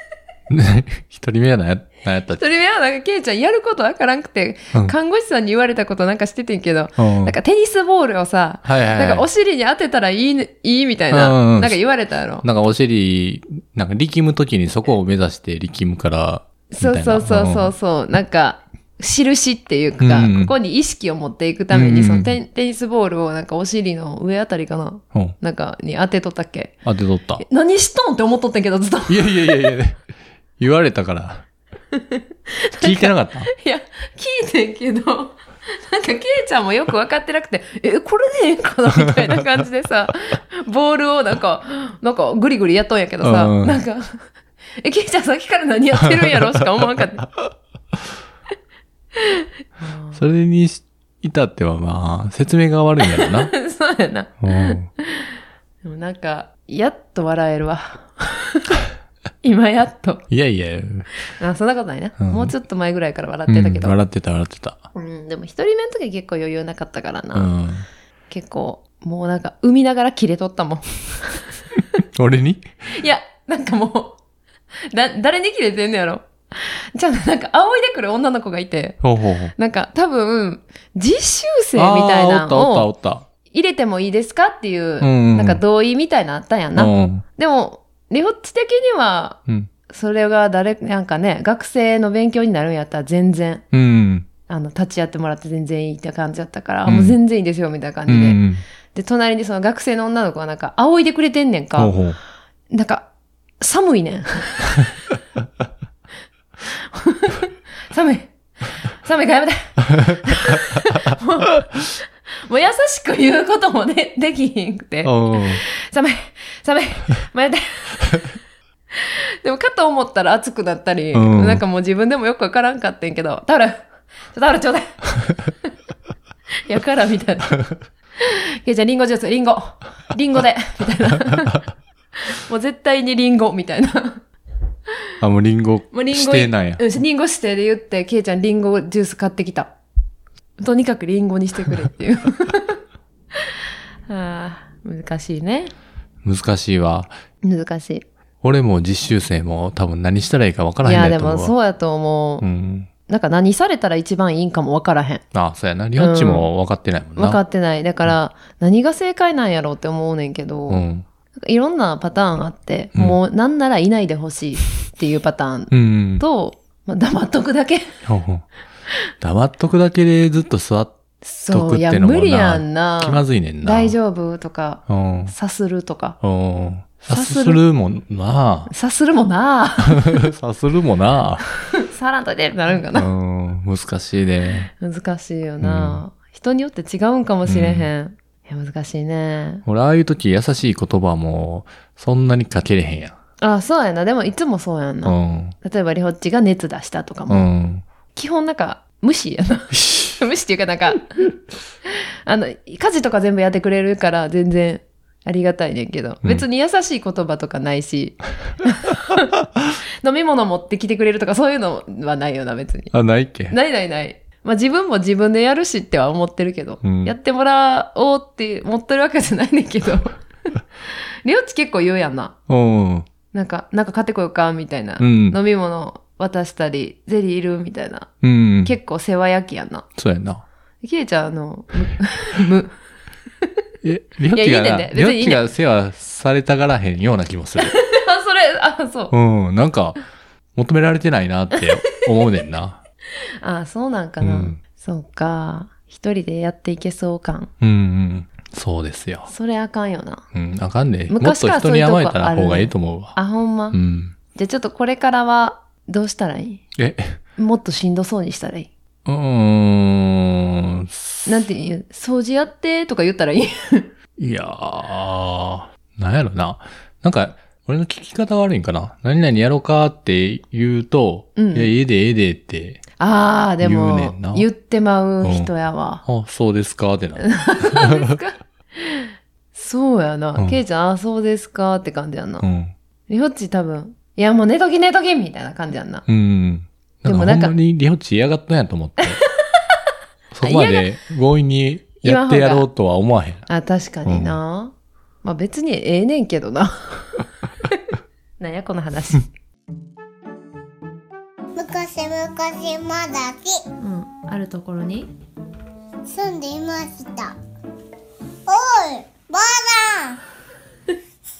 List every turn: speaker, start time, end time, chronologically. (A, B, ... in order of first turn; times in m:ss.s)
0:00.5-0:02.4 A
0:02.4-0:12.4 B
0:07.0-0:07.4 A
0:08.6-0:09.2 A
0:11.1-0:11.8 A
0:12.4-0:17.7 A
0:16.7-0:26.8 B
0:20.0-0:20.5 A
0:21.7-0:22.3 A
0:26.8-0:27.4 A
0:27.4-0:29.6 B
0:29.1-0:30.0 A
0:30.6-0:31.4 A
0:31.9-0:44.2 B
0:32.8-0:33.5 A
0:43.2-0:43.8 A
0:44.8-0:47.2 B
0:46.2-0:46.4 A
0:49.2-0:50.2 B
0:50.1-0:53.5 A
0:53.0-0:55.3 B
0:54.4-0:54.9 A
0:55.8-0:58.8 B
0:59.4-1:00.2 B
1:00.3-1:01.1 A
1:01.4-1:04.0 B
1:02.2-1:02.5 A
1:03.5-1:04.8 A
1:04.9-1:07.5 B
1:07.3-1:07.8 A
1:08.3-1:11.4 B
1:12.1-1:12.7 A
1:12.9-1:14.2 B
1:14.9-1:19.0 B
1:19.0-1:19.5 A
1:19.5-1:22.9 B
1:21.7-1:23.2 A
1:23.5-1:33.6 B
1:25.0-1:25.6 A
1:26.7-1:27.2 A
1:33.7-1:34.3 A
1:34.5-1:38.4 B
1:36.8-1:37.2 A
1:38.1-1:38.6 A
1:38.9-1:42.0 B
1:41.8-1:42.2 A
1:42.7-1:43.1 B
1:43.6-1:44.8 B
1:46.9-1:48.3 B
1:48.9-1:51.6 B
1:52.4-1:58.3 B
1:55.0-1:55.6 A
1:58.9-2:05.1 B
2:01.1-2:01.6 A
2:06.7-2:07.6 B
2:08.2-2:11.6 B
2:12.2-2:14.2 B
2:15.2-2:16.8 A
2:15.9-2:19.7 B
2:20.6-2:22.8 B
2:24.1-2:25.7 B
2:26.2-2:27.1 A
2:27.4-2:28.0 B
2:28.4-2:31.5 A
2:30.8-2:32.4 B
2:32.4-2:32.9 A
2:33.1-2:35.2 B
2:35.3-2:37.4 A
2:36.0-2:36.5 B
2:37.2-2:40.8 B
2:40.7-2:41.0 A
2:41.4-2:47.9 B
2:45.7-2:46.2 A
2:48.0-2:48.4 A
2:49.2-2:51.0 A
2:51.2-2:56.2 B
2:51.5-2:54.0 A
2:54.9-2:55.3 A
2:56.2-2:58.7 A
2:57.1-2:57.6 B
2:58.7-3:00.3 B
2:59.8-3:01.4 A
3:01.7-3:03.1 B
3:02.9-3:04.7 A
3:04.8-3:09.6 B
3:05.6-3:06.0 A
3:07.4-3:07.9 A
3:09.6-3:13.2 A
3:13.4-3:17.5 B
3:15.0-3:15.6 A
3:17.3-3:17.8 A
3:18.1-3:21.3 B
3:19.7-3:20.2 A
3:21.9-3:29.3 B
3:30.0-3:32.9 B
3:32.9-3:33.6 A
3:33.5-3:40.6 B
3:36.8-3:37.1 A
3:41.2-3:42.4 B
3:42.5-3:43.1 A
3:43.3-3:49.8 B
3:45.0-3:45.4 A
3:48.2-3:48.8 A
3:50.0-3:50.4 A
3:50.8-3:52.7 B
3:53.8-3:57.8 A
3:54.3-3:55.4 B
3:57.6-3:59.1 B
3:59.1-4:00.0 A
4:00.5-4:02.8 A
4:03.4-4:07.5 B
4:04.2-4:04.6 A
4:07.6-4:09.3 A
4:09.3-4:10.2 B
4:10.3-4:13.2 A
4:11.1-4:13.8 B
4:13.7-4:14.1 A
4:14.3-4:16.6 B
4:16.8-4:17.2 A
4:17.4-4:18.7 B
4:19.0-4:21.3 A
4:21.2-4:23.9 B
4:24.2-4:32.8 A
4:31.4-4:31.7 B
4:33.0-4:36.0 B
4:33.6-4:34.5 A
4:35.2-4:35.5 A
4:36.0-4:38.2 A
4:37.2-4:42.4 B
4:42.4-4:42.7 A
4:43.1-4:46.0 B
4:46.1-4:49.2 A
4:47.0-4:47.5 B
4:50.3-4:53.4 A
4:50.4-4:50.9 B
4:52.0-4:52.7 B
4:53.5-4:57.2 B
4:54.0-4:54.4 A
4:58.4-4:59.3 B
5:01.5-5:03.6 C
5:03.8-5:05.1 B
5:06.0-5:07.3 C
5:08.5-5:10.2 C